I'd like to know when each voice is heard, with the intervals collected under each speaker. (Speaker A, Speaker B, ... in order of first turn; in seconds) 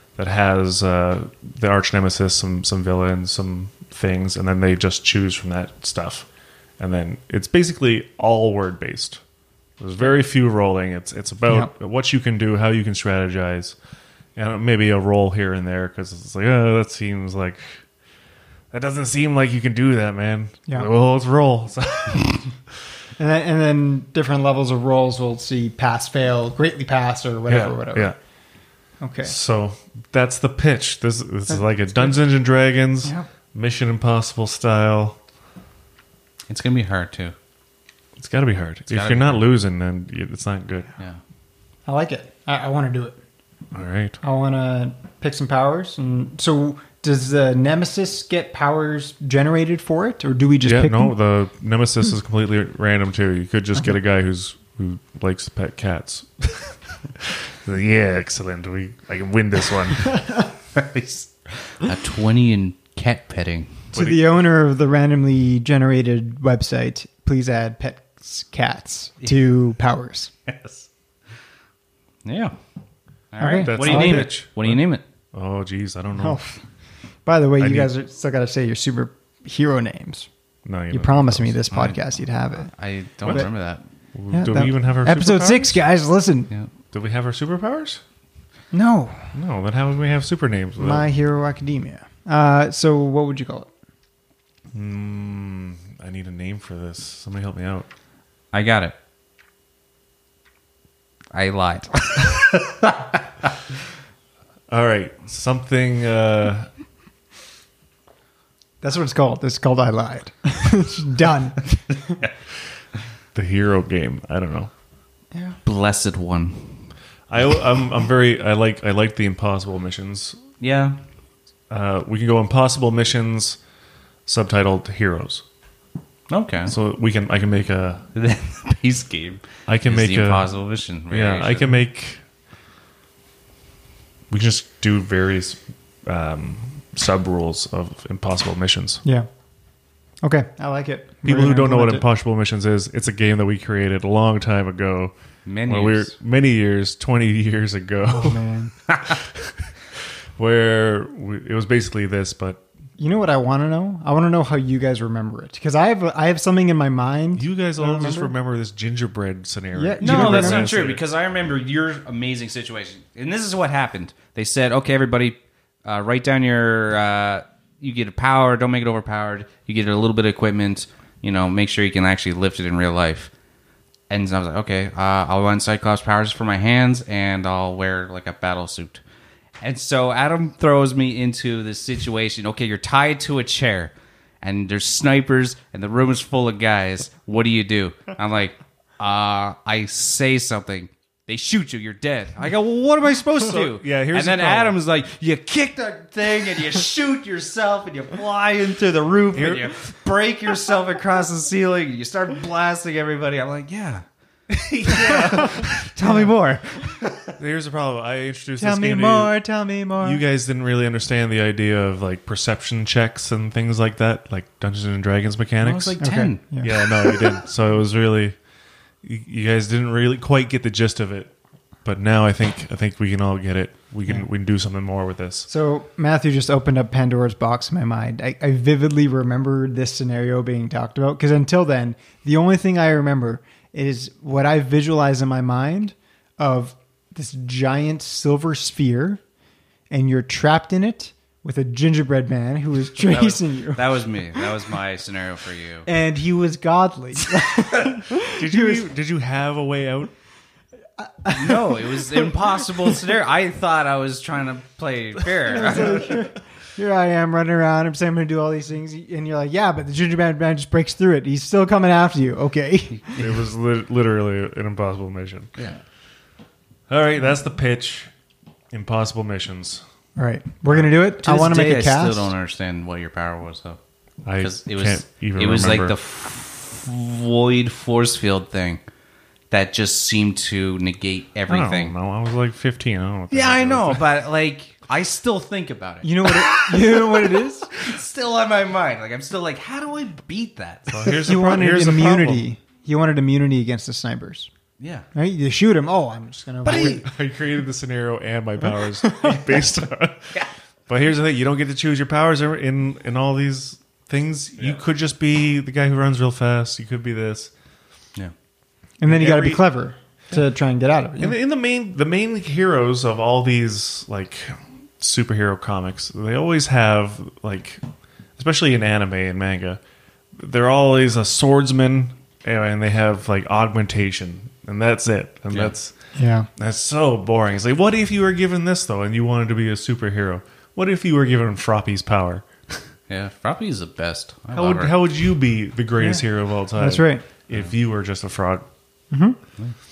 Speaker A: 0.2-6.3, 6.8-9.2, 9.8-13.8, 14.4-17.8, 18.7-22.5, 27.5-28.2, 29.2-35.2, 38.2-40.9, 43.7-44.2, 50.6-60.2, 63.9-64.4, 73.6-74.8, 75.3-76.4, 77.6-77.9, 80.7-81.6, 84.2-85.8, 86.9-88.0, 89.3-91.1, 94.7-97.9, 104.7-106.7, 113.3-114.7, 117.3-120.4, 121.7-123.6, 124.3-125.4, 126.7-128.1, 129.7-130.5, 131.1-132.2, 134.3-139.0, 141.2-145.1, 145.7-148.4, 149.1-152.6, 157.4-161.0, 193.3-194.8, 199.3-199.8, 204.7-205.7, 207.4-209.4, 210.0-216.0, 216.6-218.4, 219.0-221.3, 221.8-225.5, 247.9-250.1, 263.2-265.6, 266.9-268.1, 268.7-269.8, 274.2-276.0, 281.5-284.1, 290.9-292.5, 296.6-300.4, 300.9-307.5, 309.1-309.6, 311.2-317.8, 318.4-319.8, 320.4-325.9, 326.6-332.8, 334.5-338.7
Speaker B: 23.2-28.1, 29.0-29.3, 31.5-32.1, 41.9-43.2, 44.2-51.1, 63.9-70.3, 73.4-74.3, 76.2-76.6, 77.2-80.3, 80.9-82.7, 84.3-86.5, 88.7-89.3, 90.8-93.7, 108.8-112.2, 115.3-115.6, 140.2-142.1, 148.1-148.7, 153.0-158.3, 159.8-160.7, 206.0-206.3, 208.6-210.2, 216.0-217.3, 225.5-239.2, 239.9-244.4, 245.9-248.9, 251.0-252.6, 255.4-263.2, 270.2-272.3, 286.0-287.7, 291.0-294.5, 295.1-297.0, 299.0-299.4, 309.0-311.4, 326.1-326.5, 336.8-337.2, 339.1-339.4
Speaker C: 36.5-37.4, 38.9-39.4, 60.8-63.9, 70.5-70.9, 72.2-72.6, 73.3-75.0, 81.7-82.0, 82.6-83.8, 98.5-99.0, 101.3-103.5, 115.7-116.9, 120.6-121.0, 126.3-126.8, 128.2-131.7, 145.5-146.1, 160.0-173.3, 174.1-179.0, 179.6-204.0, 204.7-207.3, 215.6-216.4, 242.9-245.9, 251.3-256.1, 262.9-263.3, 271.2-273.8, 274.4-278.8, 279.5-281.9, 283.3-291.3, 294.8-295.1, 296.7-297.0, 333.1-335.0